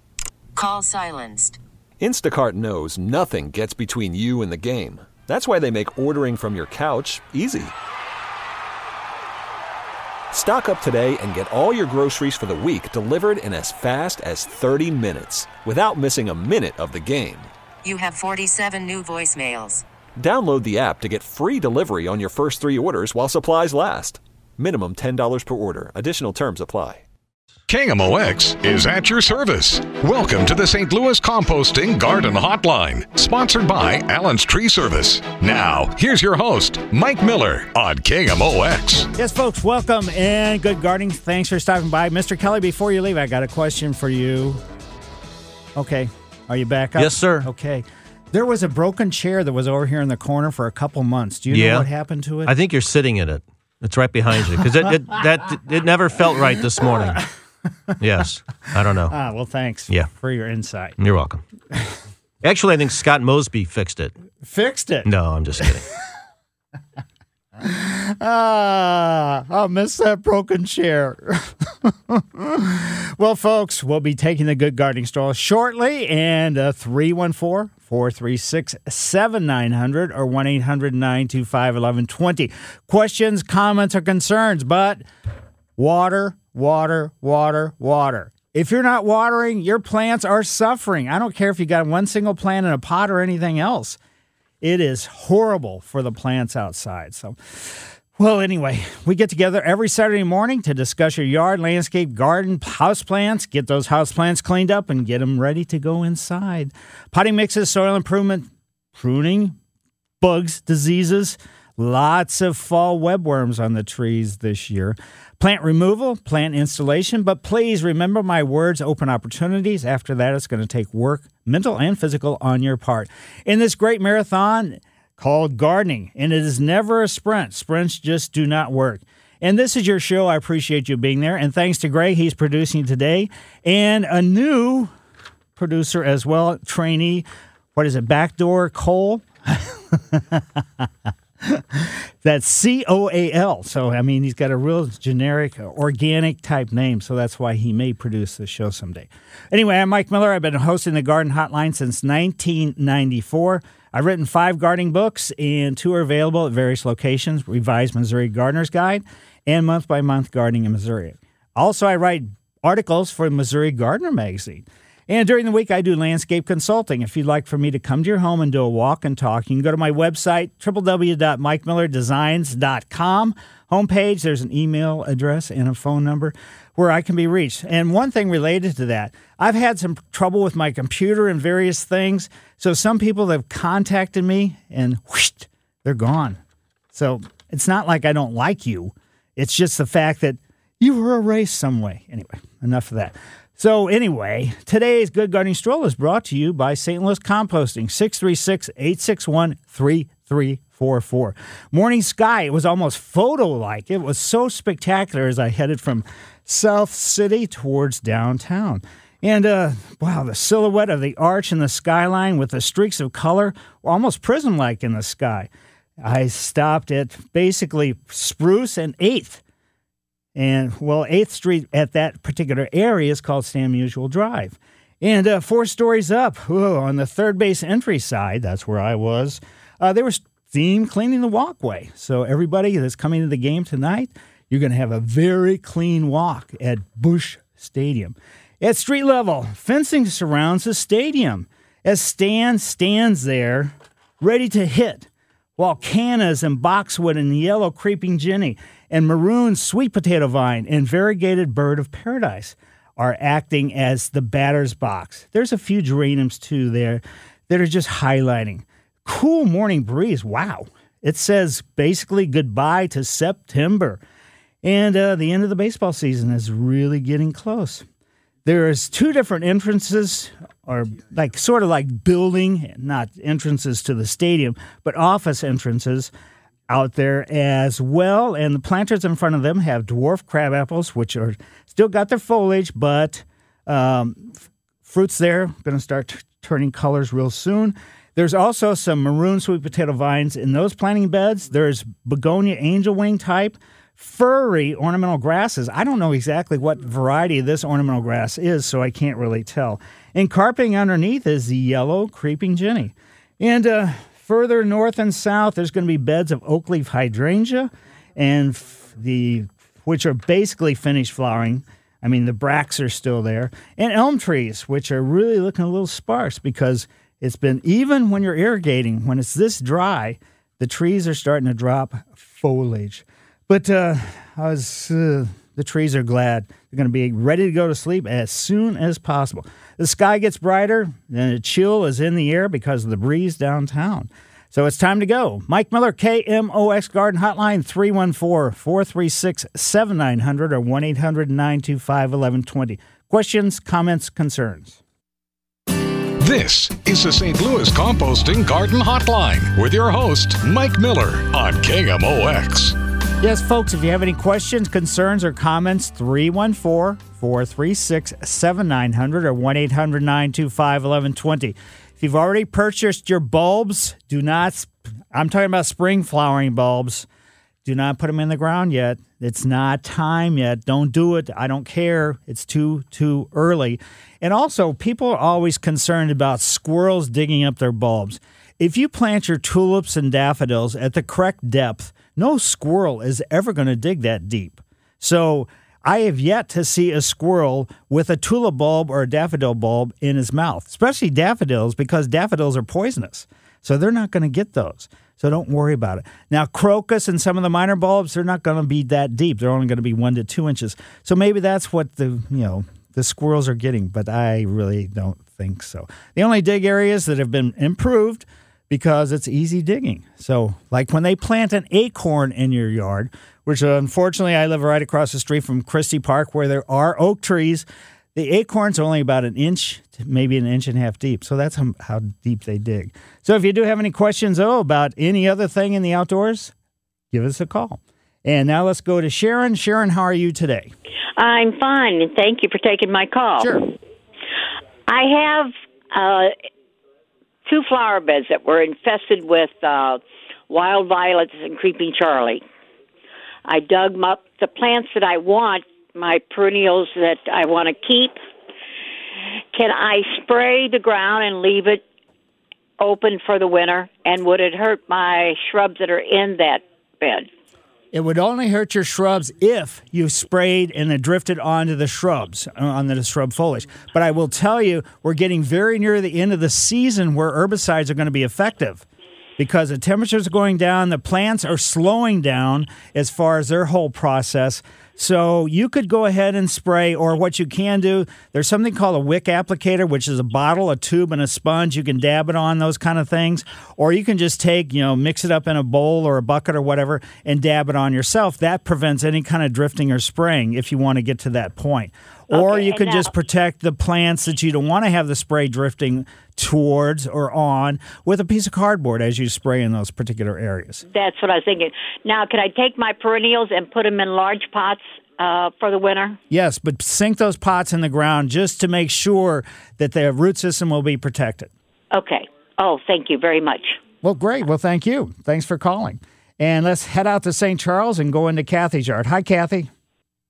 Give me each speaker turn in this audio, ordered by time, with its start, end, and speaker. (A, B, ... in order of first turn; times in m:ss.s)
0:00.6-0:01.6 A
0:02.0-0:07.7 B
0:10.3-0:17.5 B
0:17.8-0:19.8 A
0:20.2-0:27.0 B
0:27.7-0:39.1 C
0:39.2-0:44.6 D
0:45.8-0:52.6 D
0:47.0-0:47.5 E
0:51.5-0:51.9 E
0:52.5-0:57.2 E
0:58.0-0:59.1 E
0:58.9-1:01.0 D
1:01.0-1:01.4 E
1:02.4-1:04.1 E
1:04.4-1:05.1 D
1:05.1-1:05.8 E
1:07.6-1:25.0 D
1:25.8-1:34.0 D
1:34.6-1:49.6 D
1:50.2-2:14.9 D
2:15.6-2:20.9 D
2:21.4-3:06.4 D
3:06.9-3:35.5 D
3:36.0-3:39.4 D
3:40.4-4:24.0 D
4:24.6-4:27.8 D
4:28.4-4:36.1 D
4:36.7-5:44.8 D
5:46.2-5:52.8 C
5:53.2-6:07.1 D
6:07.6-7:06.5 D
7:07.1-7:10.7 D
7:11.2-7:13.6 F
7:14.9-7:16.3 F
7:17.5-7:22.4 F
7:23.5-7:28.2 F
7:29.5-7:31.8 F
7:32.8-7:37.3 F
7:37.9-7:48.8 D
7:49.4-8:20.8 D
8:12.3-8:13.1 F
8:20.9-8:26.2 F
8:26.3-8:31.5 D
8:31.9-8:33.8 F
8:34.0-8:39.7 D